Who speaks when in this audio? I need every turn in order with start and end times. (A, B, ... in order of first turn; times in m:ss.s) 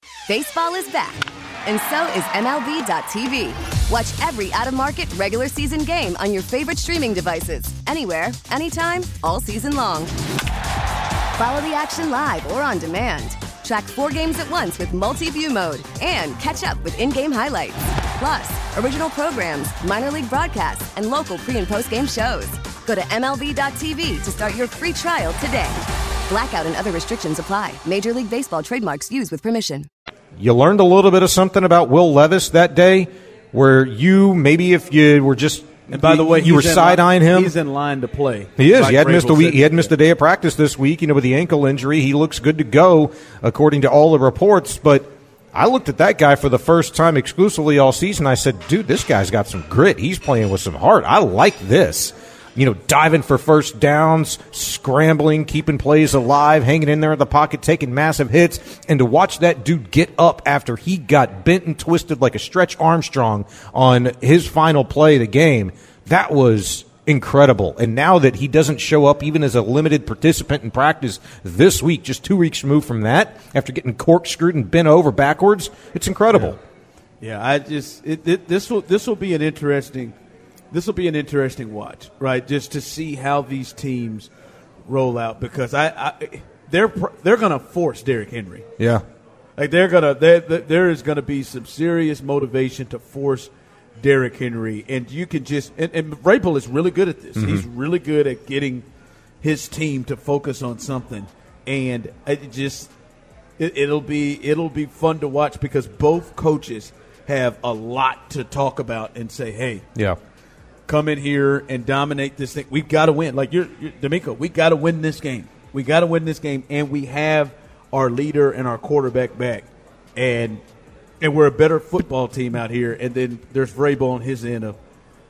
0:00.3-0:10.1 A
0:11.4-0:29.9 A
0:30.4-0:37.5 B
0:35.9-0:39.9 C
0:38.6-1:16.6 B
1:16.3-1:16.6 C
1:17.2-1:20.2 C
1:20.7-1:24.3 C
1:24.9-1:28.7 C
1:29.6-1:38.8 C
1:37.4-1:37.7 B
1:39.4-1:42.9 C
1:43.6-1:49.9 C
1:50.9-2:00.6 C
2:01.2-2:04.8 C